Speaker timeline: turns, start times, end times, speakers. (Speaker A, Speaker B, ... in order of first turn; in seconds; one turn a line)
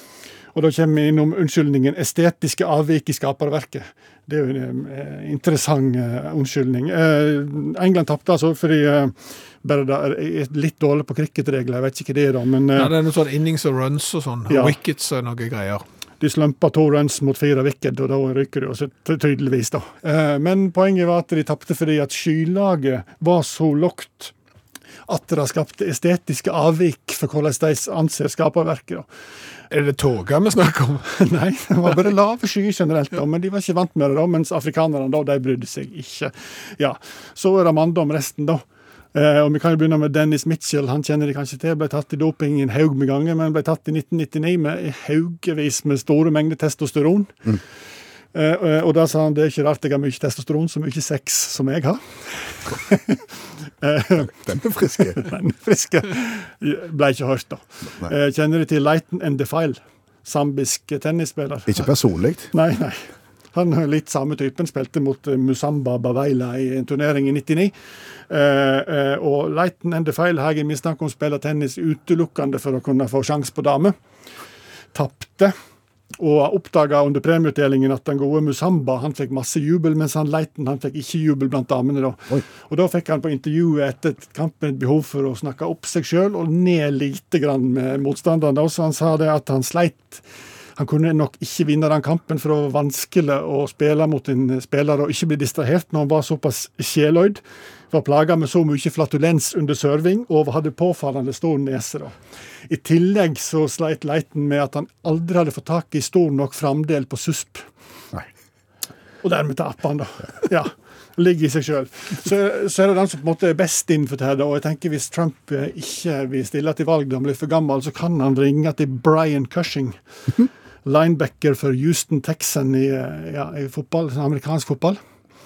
Speaker A: 0.5-12.9
Speaker B: 12.8-15.8
Speaker A: 14.5-14.8
Speaker A: 16.2-24.3
Speaker A: 25.1-29.1
Speaker B: 29.7-31.1
Speaker A: 31.1-47.5
Speaker A: 48.3-53.2
Speaker A: 53.8-54.3
Speaker C: 54.2-55.2
Speaker A: 55.0-61.9
Speaker C: 61.7-62.5
Speaker A: 62.5-67.7
Speaker A: 68.3-74.0
Speaker A: 74.9-75.5
Speaker A: 76.2-90.2
Speaker A: 90.8-102.2
Speaker A: 102.7-107.7
Speaker A: 109.2-125.0